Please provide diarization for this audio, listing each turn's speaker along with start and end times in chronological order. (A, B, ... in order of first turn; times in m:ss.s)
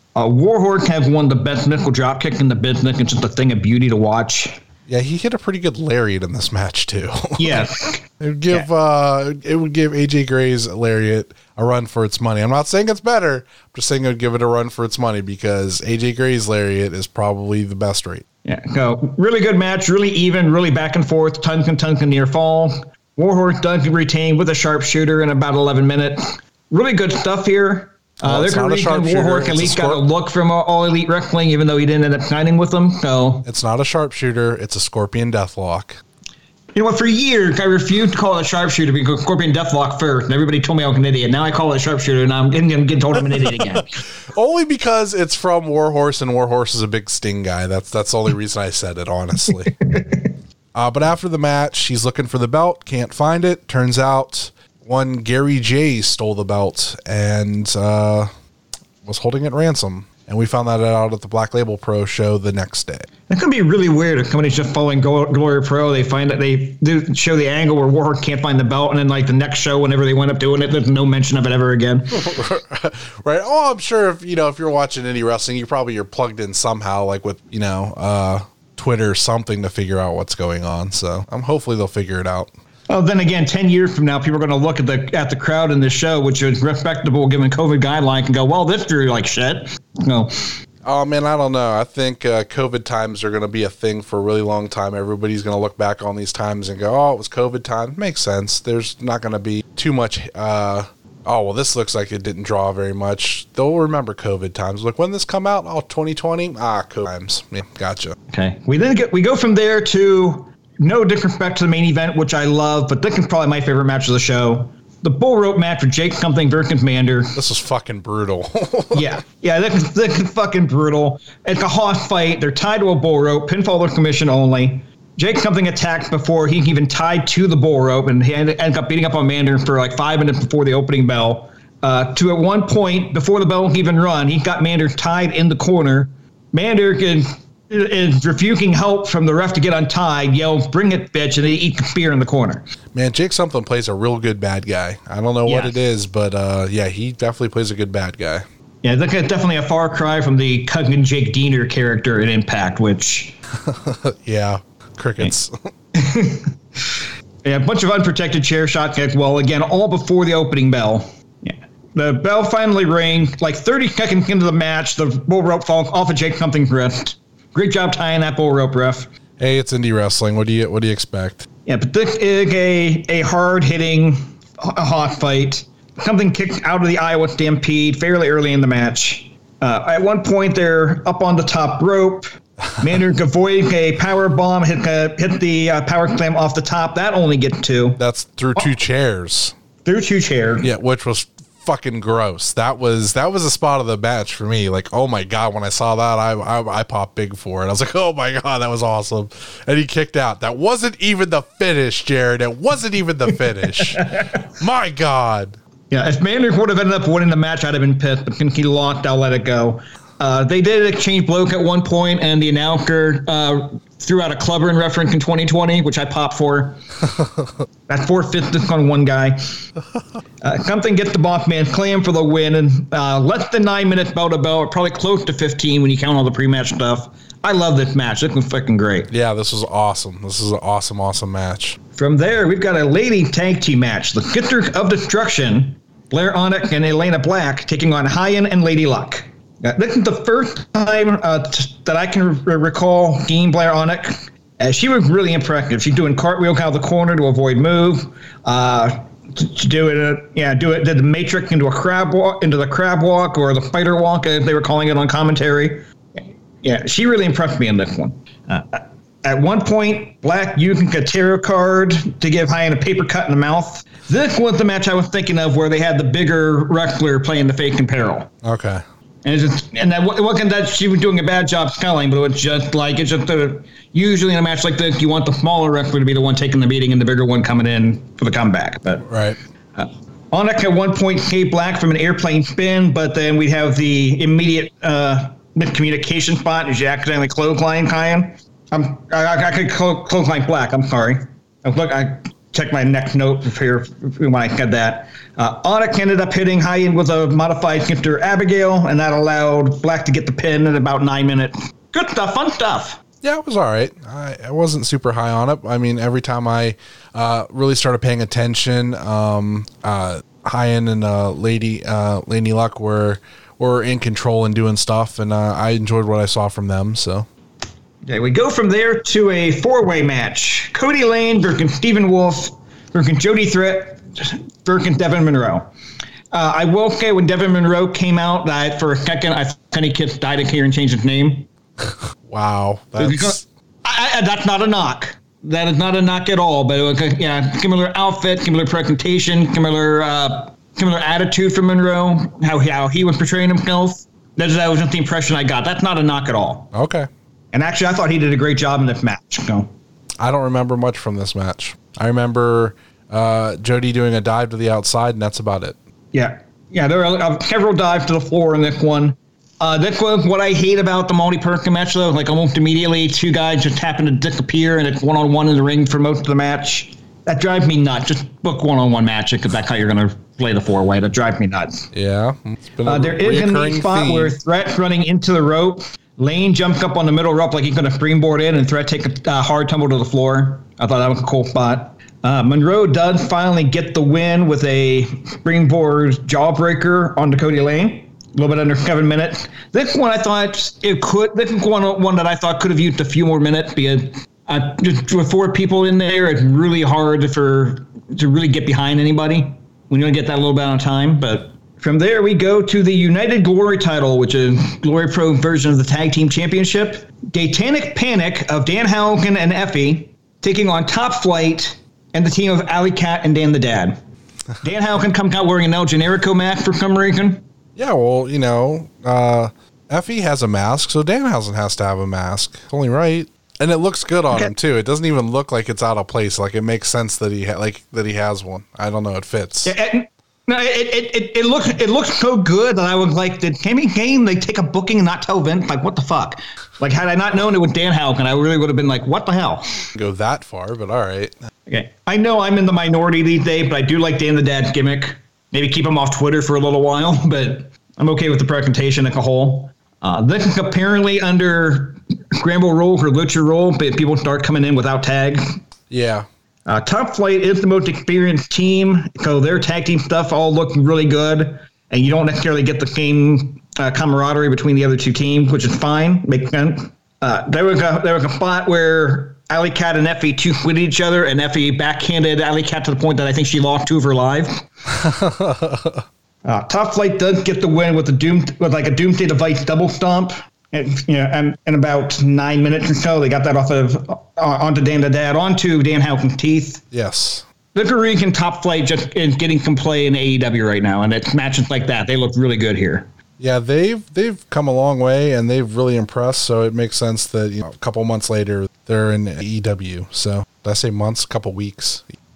0:00.1-0:04.6 A
0:04.9-0:07.6 B
0:07.4-0:08.6 A
0:08.2-0:18.2 B
0:18.4-0:33.4 A
0:28.2-0:30.0 B
0:33.4-0:36.0 B
0:36.7-0:44.0 A
0:43.4-0:43.8 B
0:44.3-0:49.7 B
0:49.9-0:50.2 A
0:50.7-0:58.3 B
0:59.0-1:03.1 B
1:03.3-1:12.2 A
1:12.1-1:22.5 B
1:22.9-1:30.5 A
1:30.8-1:48.2 B
1:48.3-1:57.4 A
1:57.4-1:59.0 B
1:58.9-2:22.6 A
2:22.9-2:28.4 B
2:25.4-2:25.8 A
2:28.8-2:33.4 A
2:33.6-2:35.7 B
2:35.9-2:49.1 A
2:49.4-2:51.4 B
2:51.6-3:08.0 A
3:08.0-3:09.5 B
3:09.8-3:10.7 A
3:10.6-3:25.6 B
3:23.8-3:24.2 A
3:25.9-3:36.8 A
3:37.9-3:39.6 A
3:40.4-3:49.1 A
3:49.1-3:51.8 B
3:52.0-4:28.3 A
4:28.4-4:28.8 B
4:29.2-4:39.0 A
4:39.1-4:39.4 B
4:39.8-5:03.0 A
5:03.2-5:17.3 B
5:18.0-5:25.7 A
5:26.3-5:31.5 A
5:32.2-5:33.4 B
5:33.0-5:46.7 A
5:46.7-5:47.1 B
5:47.5-5:49.7 A
5:50.2-5:55.8 B
5:56.1-6:11.9 A
6:11.9-6:14.4 B
6:12.8-6:54.0 A
6:54.6-6:57.4 A
6:57.8-7:09.7 B
7:09.6-7:19.8 A
7:19.9-7:21.3 B
7:21.7-7:35.6 A
7:35.9-7:36.2 B
7:36.7-7:54.6 A
7:55.0-7:56.0 B
7:56.4-8:06.8 A
8:06.9-8:07.4 B
8:07.7-8:13.1 A
8:13.4-8:22.0 B